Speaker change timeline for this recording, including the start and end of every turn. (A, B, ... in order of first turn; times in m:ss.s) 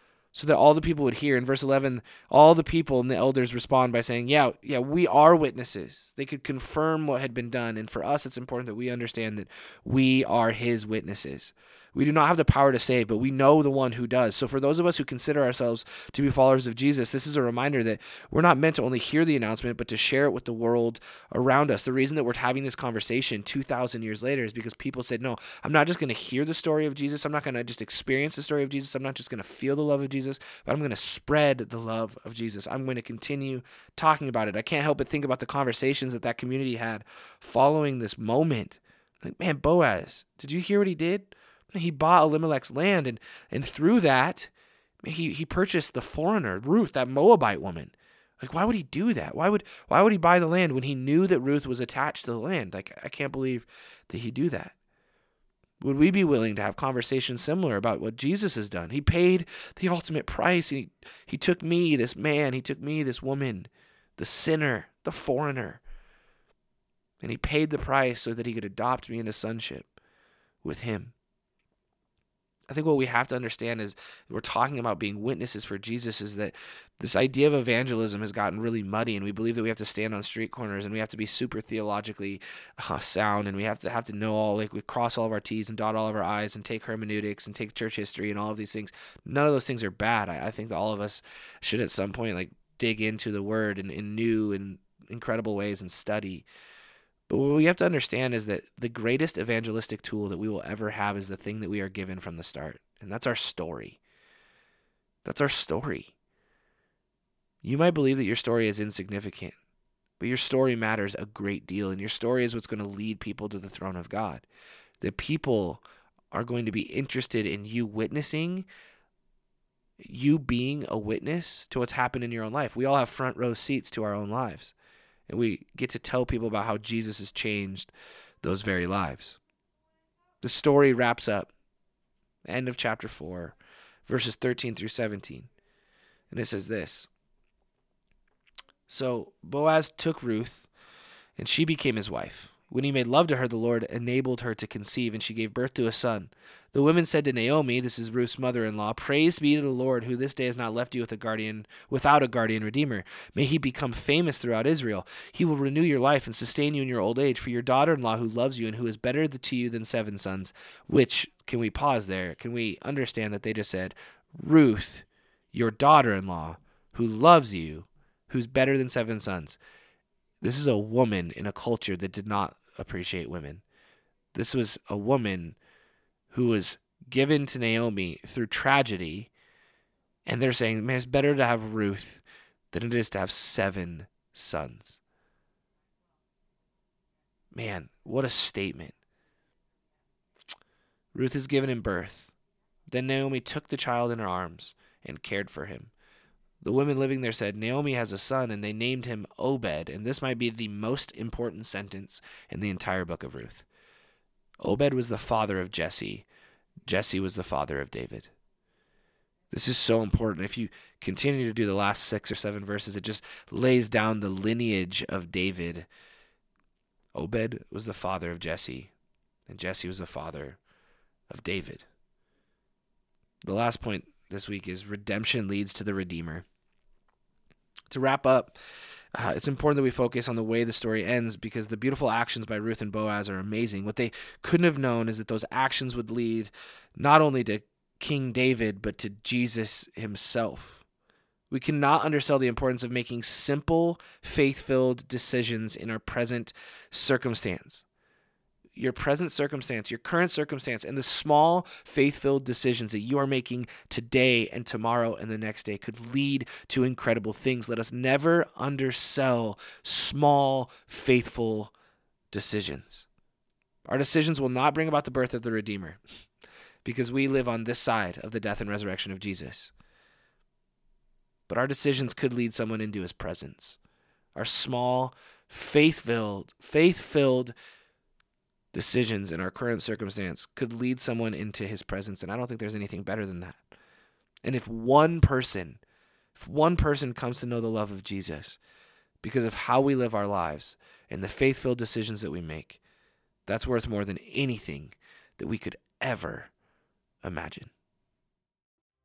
0:00.3-0:44.5 A
0:45.0-0:54.7 A
0:55.8-1:05.8 A
1:07.2-1:09.9 A
1:10.6-1:11.1 A
1:12.7-1:36.5 A
1:37.3-1:44.0 A
1:45.2-1:46.1 A
1:47.6-1:49.6 A
1:50.2-1:54.4 A
1:55.0-1:58.7 A
2:00.0-2:04.7 A
2:05.3-2:09.4 A
2:10.4-2:11.5 A
2:12.4-2:15.5 A
2:16.3-2:17.1 A
2:18.9-2:20.7 A
2:21.4-2:49.6 A
2:50.4-2:53.6 A
2:54.3-2:55.6 A
2:56.3-2:59.3 A
3:00.2-3:05.0 A
3:07.5-3:08.9 A
3:11.1-3:12.3 A
3:12.9-3:15.9 A
3:16.6-3:23.7 A
3:24.6-3:26.2 A
3:26.8-3:28.3 A
3:29.5-3:35.9 A
3:37.1-3:38.9 A
3:39.5-3:40.6 A
3:41.3-3:41.8 A
3:43.4-3:46.4 A
3:47.9-3:48.6 A
3:49.1-4:00.8 A
4:01.5-4:07.8 A
4:08.7-4:21.7 A
4:22.3-4:23.1 A
4:23.9-4:26.0 A
4:26.8-4:29.7 A
4:31.5-4:33.8 A
4:34.3-4:37.5 A
4:38.7-4:43.6 A
4:44.4-4:45.8 A
4:46.3-4:48.6 A
4:49.2-4:52.8 A
4:53.4-4:56.5 A
4:57.2-4:57.7 A